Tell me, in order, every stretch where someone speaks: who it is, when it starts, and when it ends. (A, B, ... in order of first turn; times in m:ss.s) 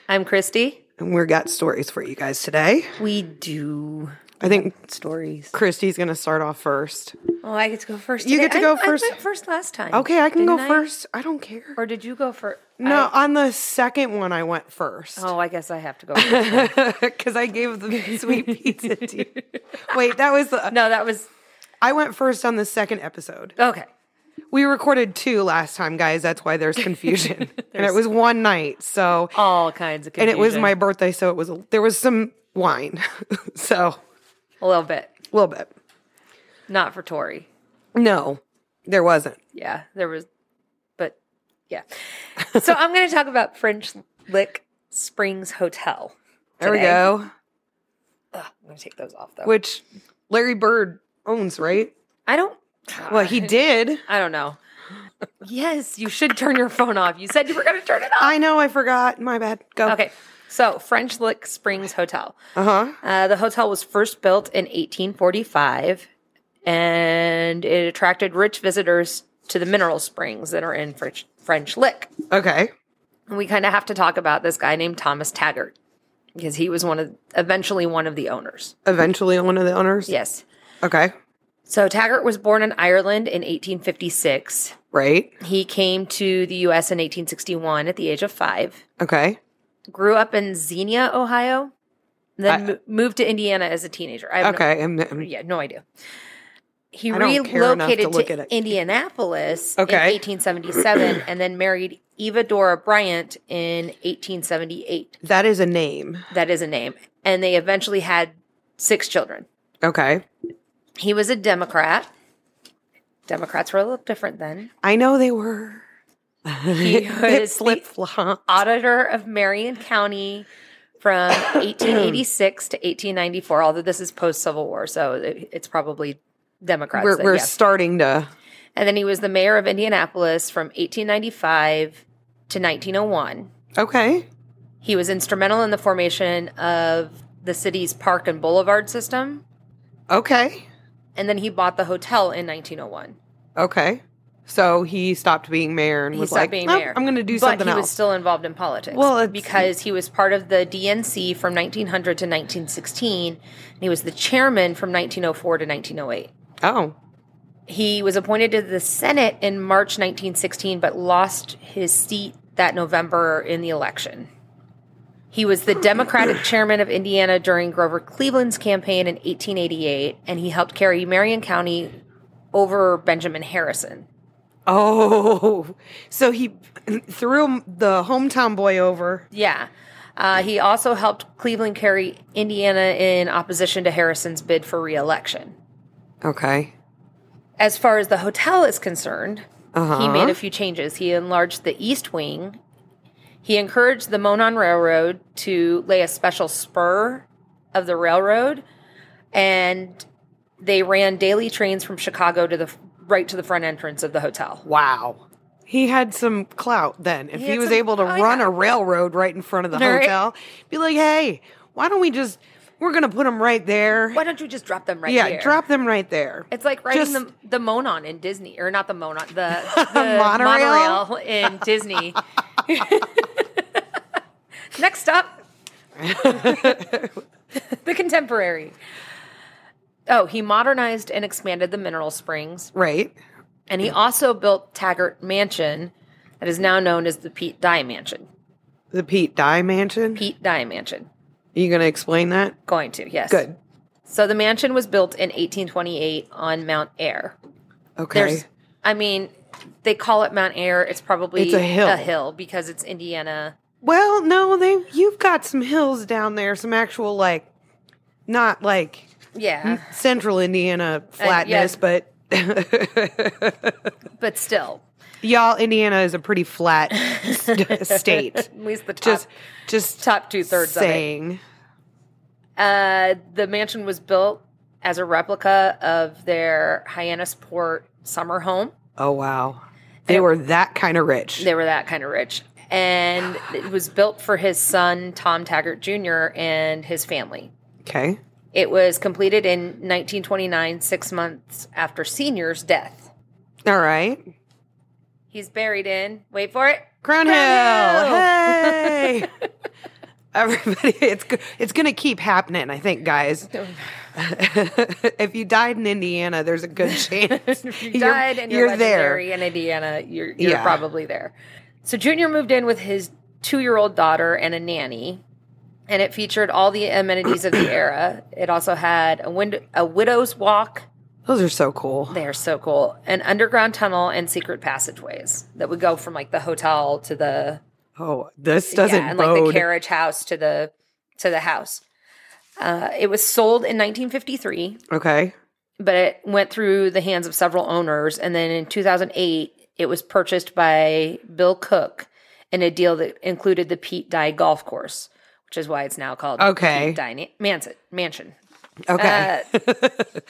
0:00.1-0:00.8 A
0:01.0-0:03.0 B
0:03.0-0:05.5 A
0:04.4-0:04.7 B
0:05.5-0:07.2 B
0:07.4-0:10.8 A
0:08.2-0:09.2 B
0:09.9-0:11.8 B
0:11.8-0:13.1 A
0:12.8-0:15.3 B
0:15.2-0:16.8 A
0:16.2-0:19.3 B
0:17.9-0:19.4 A
0:19.9-0:20.8 B
0:20.7-0:21.3 A
0:21.8-0:23.6 B
0:23.6-0:23.9 A
0:24.5-0:29.3 B
0:27.6-0:28.0 A
0:29.3-0:30.8 A
0:30.2-0:34.0 B
0:34.6-0:35.1 A
0:35.3-0:35.7 B
0:36.7-0:37.5 A
0:37.9-0:39.4 B
0:39.6-0:40.3 A
0:42.4-0:47.1 A
0:46.6-0:47.3 B
0:48.3-0:49.5 A
0:49.4-0:51.9 B
0:52.3-0:54.6 A
0:53.1-0:54.0 B
0:55.4-0:58.4 A
0:58.2-1:00.0 B
0:59.9-1:02.4 A
1:02.6-1:03.0 B
1:03.0-1:06.1 A
1:06.6-1:12.1 A
1:12.3-1:12.7 B
1:13.3-1:15.8 A
1:16.4-1:18.8 A
1:18.9-1:20.1 B
1:20.1-1:20.4 A
1:20.8-1:21.1 B
1:21.7-1:24.8 A
1:24.9-1:25.3 B
1:25.4-1:28.8 A
1:29.0-1:29.4 B
1:29.9-1:31.7 A
1:32.4-1:35.8 A
1:34.4-1:35.3 B
1:36.9-1:45.2 A
1:37.1-1:38.5 B
1:39.8-1:40.2 B
1:45.2-1:46.3 B
1:46.3-1:49.5 A
1:49.8-1:50.2 B
1:51.0-1:52.1 A
1:53.3-1:54.7 A
1:54.8-1:55.8 B
1:56.5-1:58.6 B
1:56.7-1:57.8 A
1:58.5-2:00.5 A
2:01.0-2:07.6 A
2:01.5-2:02.2 B
2:06.9-2:08.3 B
2:08.8-2:13.5 A
2:13.8-2:14.3 B
2:14.8-2:19.4 A
2:20.1-2:20.6 B
2:21.2-2:23.2 A
2:23.6-2:28.0 B
2:26.1-2:36.3 A
2:28.9-2:29.7 B
2:36.6-2:37.0 B
2:37.7-2:44.3 A
2:45.3-2:51.9 A
2:52.5-2:54.1 A
2:54.7-2:59.2 B
2:59.3-3:05.6 A
3:06.2-3:06.7 B
3:07.6-3:12.6 A
3:09.7-3:10.4 B
3:13.4-3:18.6 A
3:19.3-3:20.1 A
3:20.6-3:24.6 A
3:24.6-3:34.2 B
3:27.3-3:28.5 A
3:29.7-3:30.2 A
3:34.1-3:35.6 A
3:35.1-3:37.2 B
3:36.5-3:43.8 A
3:39.6-3:41.0 B
3:44.7-3:45.4 A
3:46.0-3:47.1 B
3:46.1-3:47.0 A
3:47.6-3:48.8 A
3:50.1-3:52.7 A
3:52.7-3:53.2 B
3:53.7-3:58.3 A
3:58.9-4:00.2 B
4:00.2-4:01.1 A
4:01.6-4:02.6 B
4:02.7-4:03.4 A
4:03.3-4:03.6 B
4:04.1-4:07.4 A
4:08.0-4:08.4 B
4:08.1-4:09.3 A
4:09.8-4:13.6 A
4:11.4-4:12.1 B
4:13.8-4:17.5 B
4:18.3-4:19.1 B
4:19.3-4:19.9 A
4:19.6-4:23.9 B
4:21.2-4:21.8 A
4:24.2-4:24.8 A
4:25.2-4:28.5 B
4:26.9-4:29.3 A
4:29.0-4:31.4 B
4:30.0-4:31.0 A
4:32.6-4:38.7 A
4:39.0-4:41.5 B
4:41.4-4:47.5 A
4:47.8-4:48.2 B
4:48.5-4:53.1 A
4:53.6-4:54.2 B
4:55.3-4:59.3 A
4:57.0-4:59.3 B
5:00.3-5:03.5 B
5:03.5-5:03.9 A
5:04.1-5:09.2 B
5:06.9-5:11.3 A
5:10.4-5:10.8 B
5:11.8-5:15.2 A
5:15.9-5:20.9 A
5:21.3-5:22.2 B
5:22.1-5:27.6 A
5:28.0-5:29.7 B
5:28.7-5:31.8 A
5:32.6-5:34.8 A
5:34.9-5:35.3 B
5:35.8-5:48.4 A
5:46.4-5:47.0 B
5:48.9-5:50.1 B
5:49.0-5:49.5 A